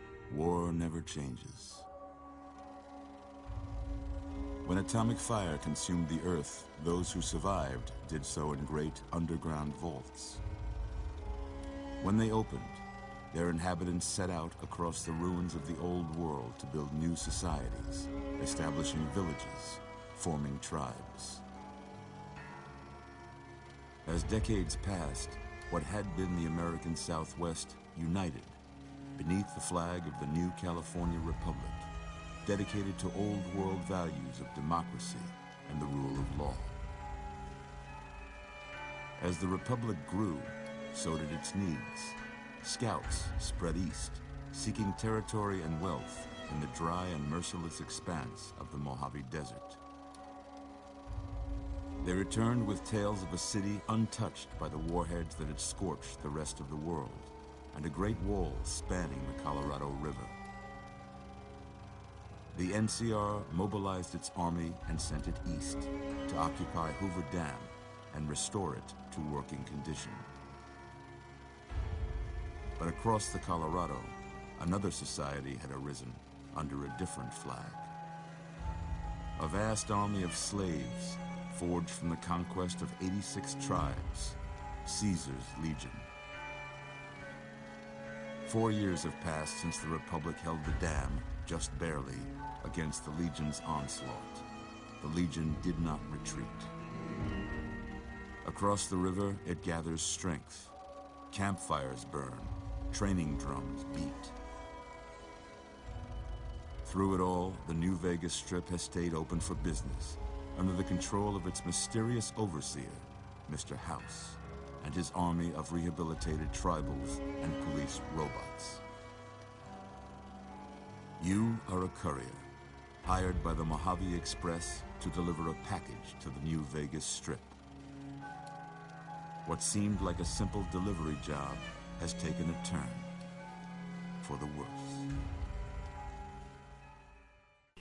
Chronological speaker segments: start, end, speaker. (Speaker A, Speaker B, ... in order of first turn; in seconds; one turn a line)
Speaker A: 0.3-1.9
Speaker A: 4.6-10.4
Speaker A: 12.0-21.4
Speaker A: 24.1-28.6
Speaker A: 29.2-31.9
Speaker A: 32.4-36.8
Speaker A: 39.2-49.8
Speaker A: 52.0-60.4
Speaker A: 62.5-70.3
Speaker A: 72.8-77.9
Speaker A: 79.4-86.1
Speaker A: 88.4-94.5
Speaker A: 95.0-96.7
Speaker A: 98.4-100.7
Speaker A: 101.3-104.4
Speaker A: 106.8-118.8
Speaker A: 121.2-122.5
Speaker A: 123.0-127.6
Speaker A: 129.4-133.1
Speaker A: 134.2-135.1